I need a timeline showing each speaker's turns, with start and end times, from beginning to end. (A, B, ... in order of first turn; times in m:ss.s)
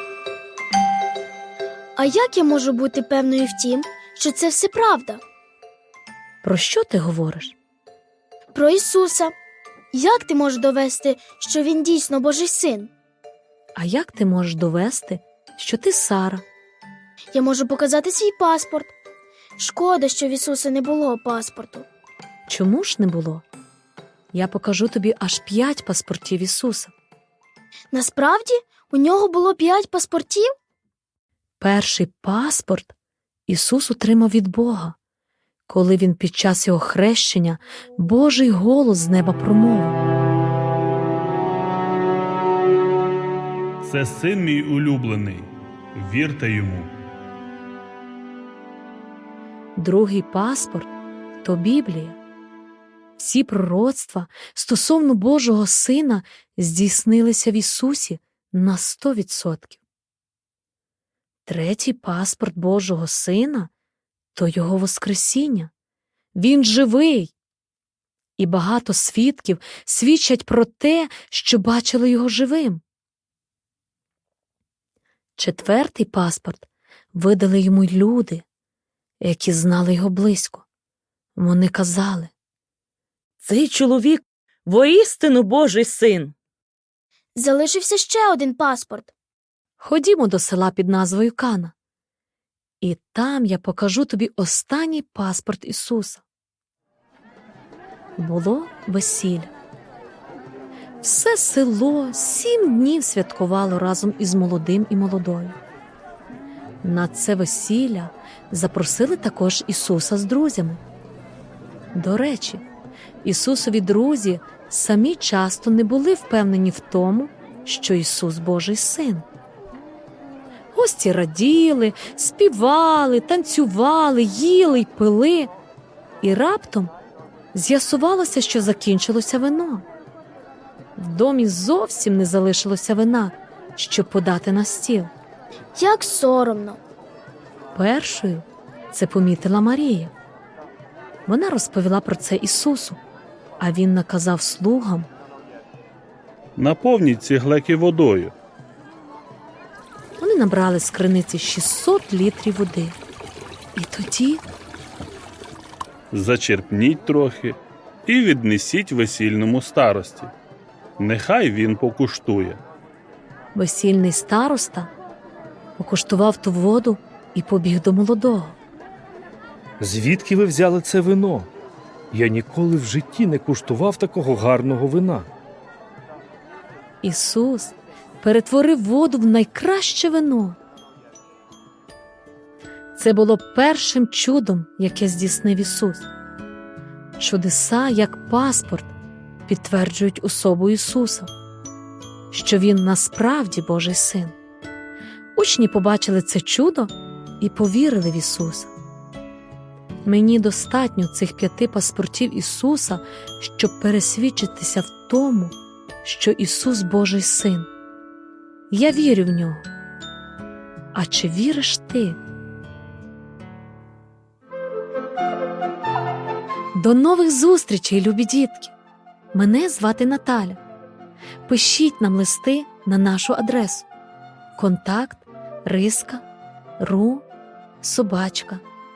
0:02.0-0:05.2 A
0:06.4-0:07.6 B
0:08.5-0:09.3 A
0:09.9-0:12.9 A
0:13.8-0:16.4 B
0:17.3-0:18.9 A
0:19.6-0:21.9 A
0:22.5-0:23.4 B
0:24.3-0:26.9 B
0:27.9-0:30.5 A
0:31.6-0:32.9 B
0:33.5-0:35.0 B
0:35.7-0:40.0 B
0:43.8-0:46.9 C
0:49.8-0:50.9 B
0:51.4-0:52.2 B
0:53.2-0:59.8 B
1:01.5-1:03.7 B
1:04.4-1:05.7 B
1:06.4-1:07.3 B
1:08.4-1:12.8 B
1:15.4-1:18.4 B
1:19.2-1:20.6 B
1:21.4-1:22.3 B
1:23.4-1:26.3 D
1:27.4-1:29.1 A
1:29.8-1:31.7 B
1:32.8-1:36.2 B
1:38.2-1:39.5 B
1:41.0-1:45.6 B
1:46.8-1:50.8 B
1:51.9-1:52.6 B
1:53.2-1:59.3 B
2:00.7-2:05.5 B
2:06.2-2:06.9 B
2:07.5-2:09.8 B
2:11.0-2:15.1 B
2:15.7-2:16.8 A
2:17.7-2:20.1 B
2:21.3-2:23.0 B
2:23.6-2:25.1 B
2:26.6-2:28.3 C
2:30.2-2:33.0 B
2:33.8-2:34.4 B
2:36.1-2:40.3 C
2:41.0-2:42.6 C
2:43.6-2:44.9 B
2:45.8-2:48.6 B
2:49.8-2:51.5 E
2:52.1-2:55.3 E
2:57.0-3:00.6 B
3:03.0-3:06.1 B
3:07.2-3:08.9 B
3:09.5-3:11.3 B
3:12.3-3:14.4 B
3:15.4-3:18.7 B
3:20.0-3:27.7 B
3:28.7-3:29.7 B
3:30.9-3:32.2 B
3:36.7-3:38.8 B
3:39.3-3:40.6 B
3:41.5-3:43.9 B
3:44.6-3:46.2 B
3:46.8-3:47.2 B
3:47.8-3:48.6 B